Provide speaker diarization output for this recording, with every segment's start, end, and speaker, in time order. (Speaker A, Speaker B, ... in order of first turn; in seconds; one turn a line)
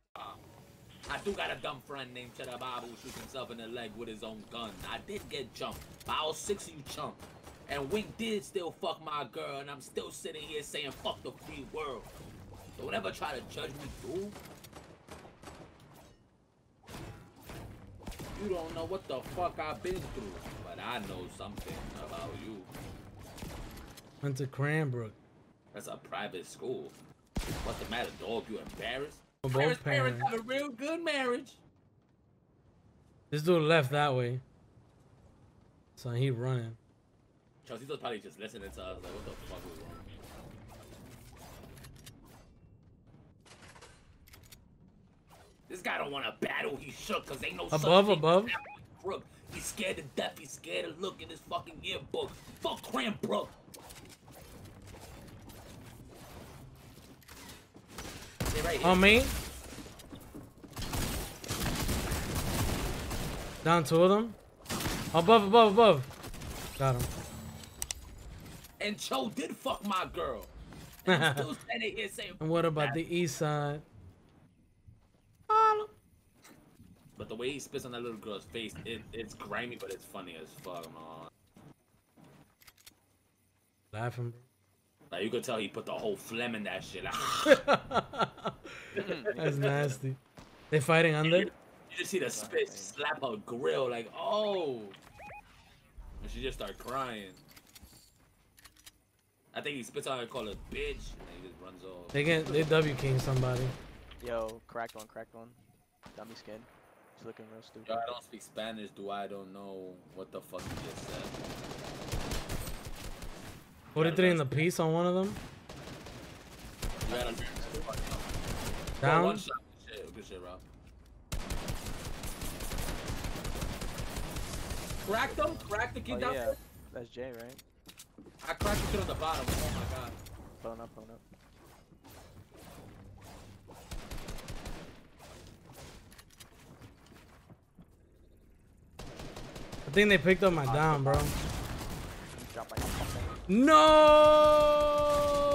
Speaker A: 1.1-12.1
Speaker A: 12.8-14.4
Speaker A: 18.3-22.7
Speaker B: 24.2-25.1
Speaker A: 25.7-27.0
Speaker A: 27.6-31.6
Speaker B: 29.4-30.3
Speaker B: 33.3-34.4
Speaker B: 36.0-36.8
Speaker A: 37.6-40.1
Speaker A: 45.7-53.5
Speaker B: 47.7-48.5
Speaker A: 58.5-59.3
Speaker B: 58.8-59.4
Speaker B: 63.6-64.4
Speaker B: 65.1-66.1
Speaker B: 66.8-67.1
Speaker A: 68.8-70.5
Speaker A: 71.0-73.0
Speaker B: 71.1-71.5
Speaker B: 72.4-73.8
Speaker B: 75.5-75.9
Speaker A: 77.2-81.3
Speaker B: 83.9-84.5
Speaker A: 85.1-87.6
Speaker B: 87.5-88.7
Speaker A: 89.0-90.0
Speaker C: 89.0-89.4
Speaker B: 89.3-90.2
Speaker B: 90.7-91.5
Speaker A: 91.2-95.0
Speaker C: 92.3-92.9
Speaker A: 96.2-97.4
Speaker A: 99.5-102.8
Speaker B: 102.1-103.8
Speaker C: 104.2-108.0
Speaker A: 107.8-111.4
Speaker B: 114.0-115.4
Speaker A: 114.0-114.6
Speaker C: 117.1-118.0
Speaker A: 117.1-118.2
Speaker B: 119.0-119.5
Speaker A: 119.0-120.6
Speaker A: 125.0-126.6
Speaker C: 125.2-127.6
Speaker A: 128.4-130.2
Speaker C: 130.6-131.2
Speaker B: 139.9-141.3
Speaker C: 140.6-141.4
Speaker C: 142.3-143.4
Speaker B: 143.5-144.9